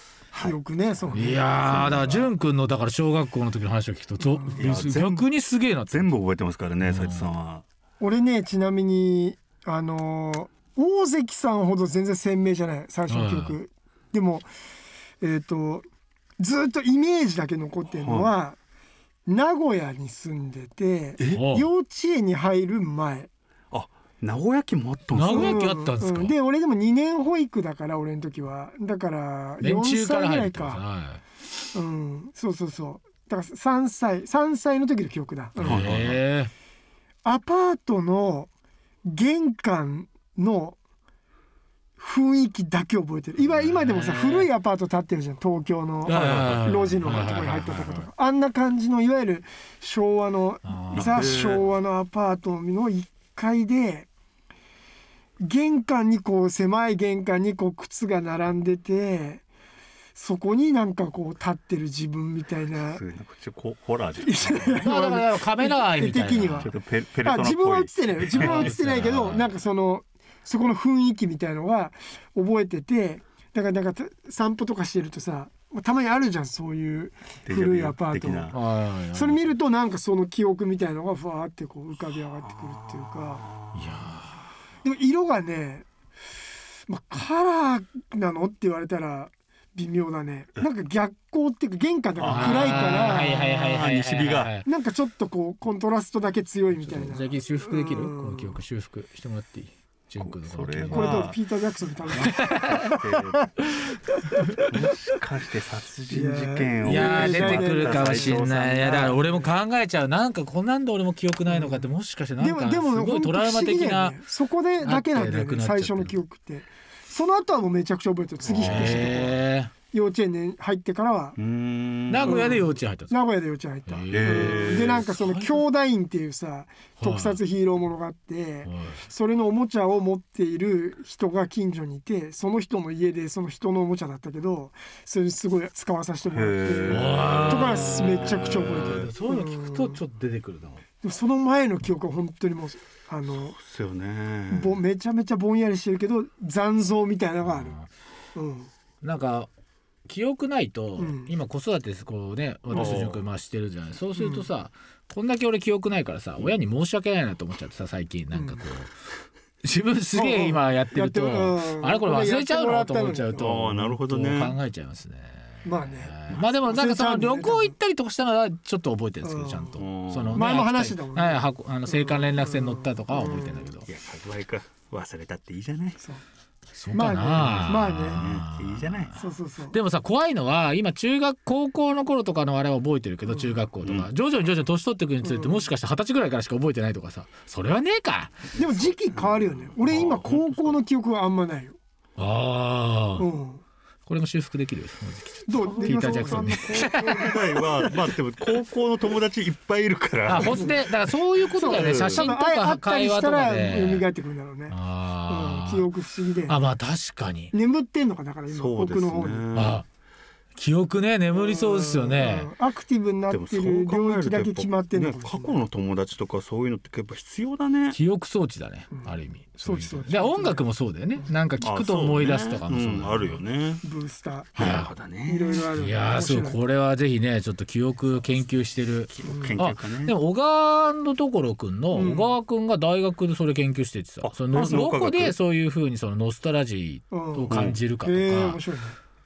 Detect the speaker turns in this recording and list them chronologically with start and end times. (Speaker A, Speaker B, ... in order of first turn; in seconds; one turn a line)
Speaker A: 0.3-2.3
Speaker B: 1.1-6.1
Speaker A: 4.2-4.8
Speaker C: 4.5-5.3
Speaker C: 5.9-7.6
Speaker B: 6.8-7.3
Speaker A: 8.0-14.5
Speaker B: 13.1-13.6
Speaker A: 15.2-15.8
Speaker A: 16.4-18.6
Speaker C: 18.0-18.3
Speaker A: 19.2-23.3
Speaker C: 21.2-21.4
Speaker B: 21.2-21.7
Speaker C: 23.7-25.6
Speaker B: 25.1-26.3
Speaker A: 25.3-30.8
Speaker B: 29.6-31.2
Speaker A: 31.7-35.8
Speaker C: 35.5-36.2
Speaker B: 35.6-36.5
Speaker A: 37.2-38.5
Speaker A: 39.0-40.8
Speaker A: 42.0-54.1
Speaker B: 43.6-44.5
Speaker B: 46.0-48.0
Speaker C: 46.1-47.2
Speaker B: 50.6-51.4
Speaker C: 50.9-51.7
Speaker A: 55.4-59.4
Speaker A: 60.1-63.0
Speaker C: 62.8-64.8
Speaker A: 64.2-78.5
Speaker B: 64.8-66.7
Speaker C: 66.6-68.7
Speaker B: 68.4-69.5
Speaker C: 77.5-78.6
Speaker B: 78.5-79.5
Speaker A: 79.1-83.5
Speaker C: 82.4-84.2
Speaker B: 83.7-84.4
Speaker A: 84.8-85.8
Speaker A: 86.9-93.5
Speaker C: 92.2-94.5
Speaker B: 92.2-94.7
Speaker A: 94.6-98.6
Speaker B: 96.8-101.3
Speaker C: 100.2-101.4
Speaker A: 100.8-103.4
Speaker C: 102.1-103.5
Speaker B: 102.2-102.9
Speaker A: 104.4-104.6
Speaker C: 104.7-109.2
Speaker A: 106.1-109.5
Speaker B: 106.8-114.2
Speaker A: 111.5-111.8
Speaker A: 112.4-119.3
Speaker B: 114.8-116.2
Speaker C: 118.5-119.4
Speaker B: 118.5-119.7
Speaker A: 119.9-121.4
Speaker C: 121.3-122.7
Speaker B: 122.1-123.2
Speaker A: 122.2-140.0
Speaker B: 123.9-125.7
Speaker C: 124.1-125.1
Speaker B: 127.0-127.4
Speaker B: 128.6-129.0
Speaker C: 136.2-139.1
Speaker B: 136.8-140.8
Speaker A: 141.0-143.6
Speaker C: 143.2-144.8
Speaker A: 144.5-147.8
Speaker B: 147.4-147.9
Speaker A: 148.3-148.7
Speaker B: 149.0-149.5
Speaker B: 150.1-158.9
Speaker A: 151.0-151.3
Speaker A: 152.7-153.0
Speaker C: 152.7-153.3
Speaker A: 154.2-154.5
Speaker A: 158.3-158.7
Speaker B: 159.6-173.9
Speaker A: 160.1-163.6
Speaker C: 163.3-164.6
Speaker A: 165.6-166.1
Speaker C: 166.3-166.6
Speaker A: 166.6-167.7
Speaker A: 169.2-169.8
Speaker C: 169.8-170.5
Speaker A: 170.3-173.7
Speaker C: 173.8-176.0
Speaker B: 176.7-188.4
Speaker A: 176.9-178.2
Speaker C: 177.3-179.1
Speaker A: 179.1-179.8
Speaker A: 183.2-183.6
Speaker C: 183.8-184.1
Speaker A: 185.2-185.7
Speaker C: 188.5-190.8
Speaker A: 188.6-191.8
Speaker B: 192.2-193.3
Speaker A: 193.2-193.6
Speaker B: 194.1-197.3
Speaker A: 195.4-197.8
Speaker C: 195.7-202.3
Speaker B: 200.2-204.0
Speaker A: 200.3-200.8
Speaker A: 201.5-204.8
Speaker B: 204.7-205.9
Speaker A: 205.3-206.6
Speaker B: 206.5-207.5
Speaker A: 207.5-209.6
Speaker C: 208.5-209.8
Speaker B: 209.5-209.8
Speaker B: 210.5-212.5
Speaker A: 211.3-215.6
Speaker C: 213.3-218.0
Speaker B: 217.9-223.4
Speaker A: 218.9-220.7
Speaker C: 221.6-223.8
Speaker A: 223.8-224.7
Speaker C: 224.6-225.7
Speaker B: 224.6-224.9
Speaker A: 225.2-226.6
Speaker B: 225.7-238.6
Speaker C: 229.1-230.1
Speaker A: 229.2-229.5
Speaker A: 231.9-232.4
Speaker C: 234.2-235.3
Speaker A: 237.1-239.0
Speaker C: 237.5-237.8